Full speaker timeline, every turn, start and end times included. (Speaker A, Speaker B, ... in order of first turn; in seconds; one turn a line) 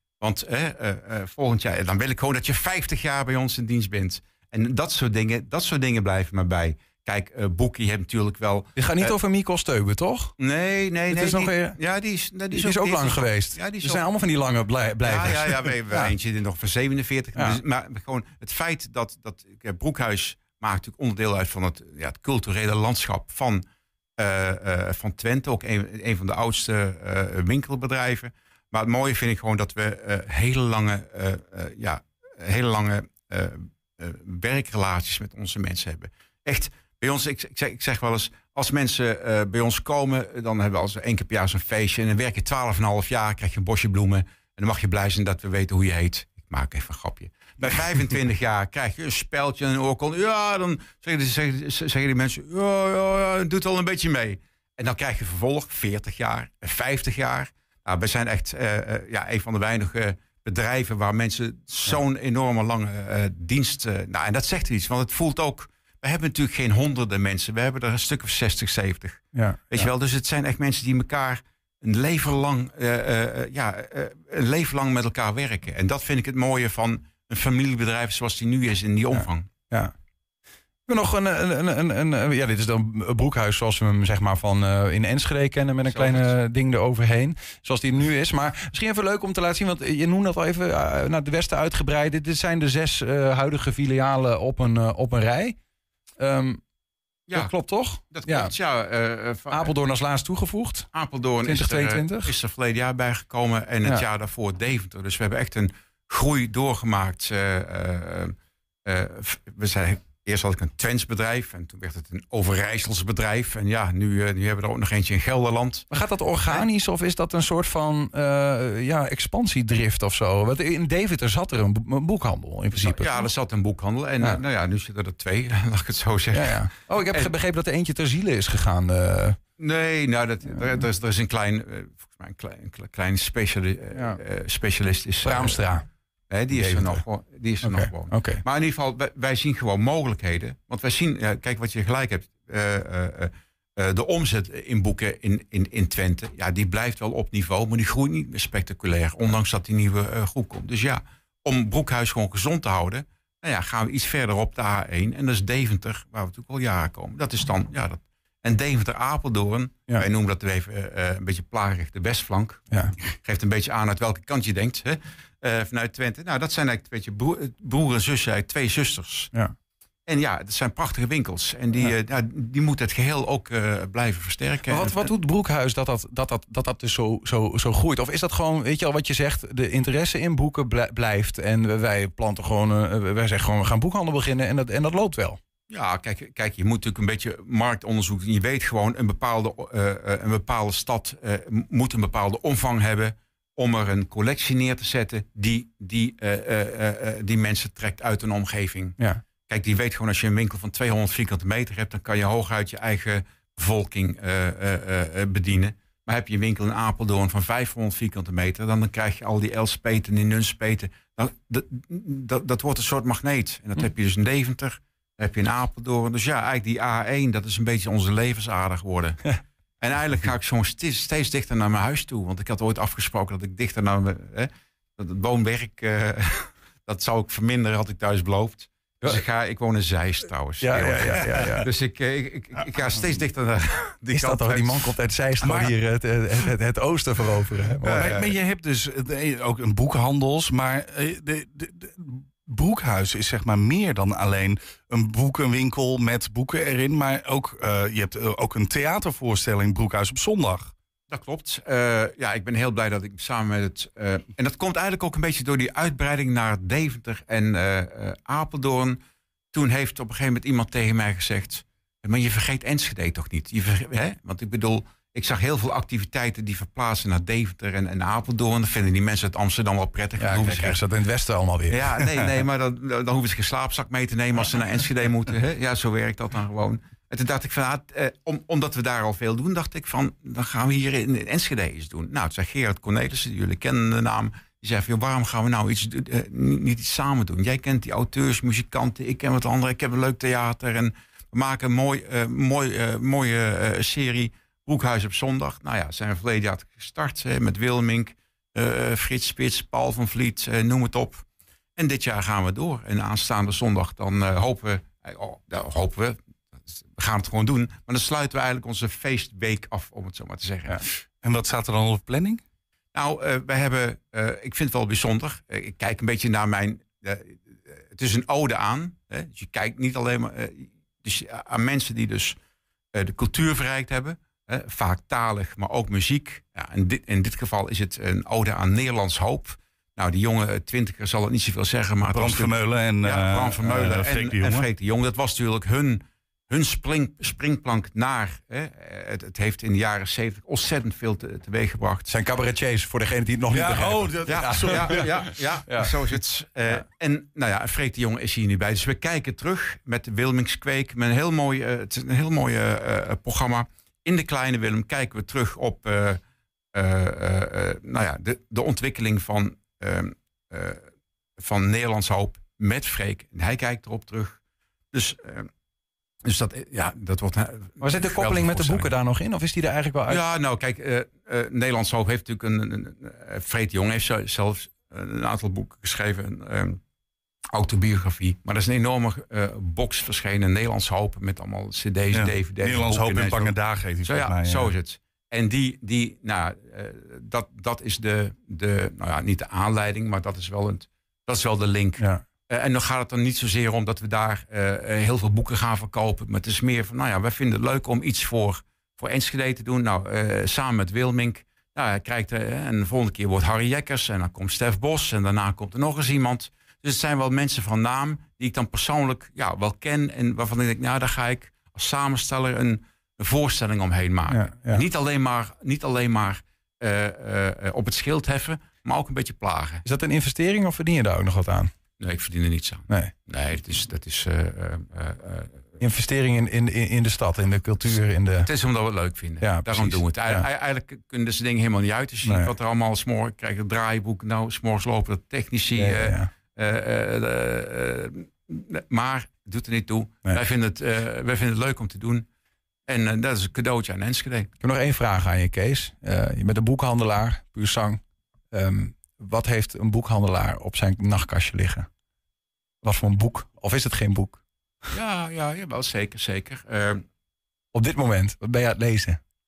Speaker A: 0.2-9.1
Speaker B: 8.8-10.3
Speaker A: 10.4-14.0
Speaker B: 11.1-11.8
Speaker B: 12.5-16.1
Speaker A: 15.0-23.6
Speaker A: 24.2-79.5
Speaker B: 69.3-69.9
Speaker B: 79.1-79.9
Speaker B: 80.9-95.6
Speaker A: 85.8-86.3
Speaker B: 96.2-96.6
Speaker A: 97.3-97.5
Speaker B: 97.3-98.5
Speaker A: 98.1-99.7
Speaker B: 99.5-100.9
Speaker A: 100.9-115.8
Speaker B: 101.4-102.3
Speaker B: 115.9-123.3
Speaker A: 122.8-127.3
Speaker B: 126.3-129.4
Speaker A: 129.6-135.6
Speaker B: 133.9-134.2
Speaker B: 135.2-135.8
Speaker A: 136.3-169.3
Speaker B: 136.5-137.0
Speaker B: 137.6-138.4
Speaker A: 170.1-175.1
Speaker B: 174.7-185.4
Speaker A: 185.7-219.2
Speaker A: 219.8-234.9
Speaker B: 230.6-231.7
Speaker B: 234.1-238.2
Speaker C: 235.4-235.7
Speaker C: 237.8-250.7
Speaker A: 237.9-238.3
Speaker A: 251.1-259.0
Speaker A: 259.5-270.8
Speaker B: 270.2-272.4
Speaker A: 271.7-301.2
Speaker A: 301.8-306.2
Speaker A: 306.8-310.8
Speaker C: 311.2-312.4
Speaker A: 312.9-322.4
Speaker A: 322.9-342.1
Speaker C: 332.1-334.7
Speaker B: 342.1-345.9
Speaker C: 343.5-345.1
Speaker A: 344.2-356.2
Speaker A: 356.7-360.8
Speaker A: 361.4-364.4
Speaker A: 364.9-365.5
Speaker A: 366.2-368.9
Speaker B: 367.8-370.2
Speaker A: 370.1-376.8
Speaker A: 377.5-419.8
Speaker C: 382.1-384.7
Speaker B: 414.3-414.8
Speaker B: 419.8-421.7
Speaker A: 422.0-425.7
Speaker B: 425.8-428.5
Speaker A: 428.4-442.2
Speaker B: 429.4-430.4
Speaker B: 432.2-432.5
Speaker B: 435.7-436.3
Speaker A: 442.9-444.5
Speaker B: 444.6-451.9
Speaker B: 452.8-454.4
Speaker A: 454.9-457.0
Speaker B: 457.7-459.2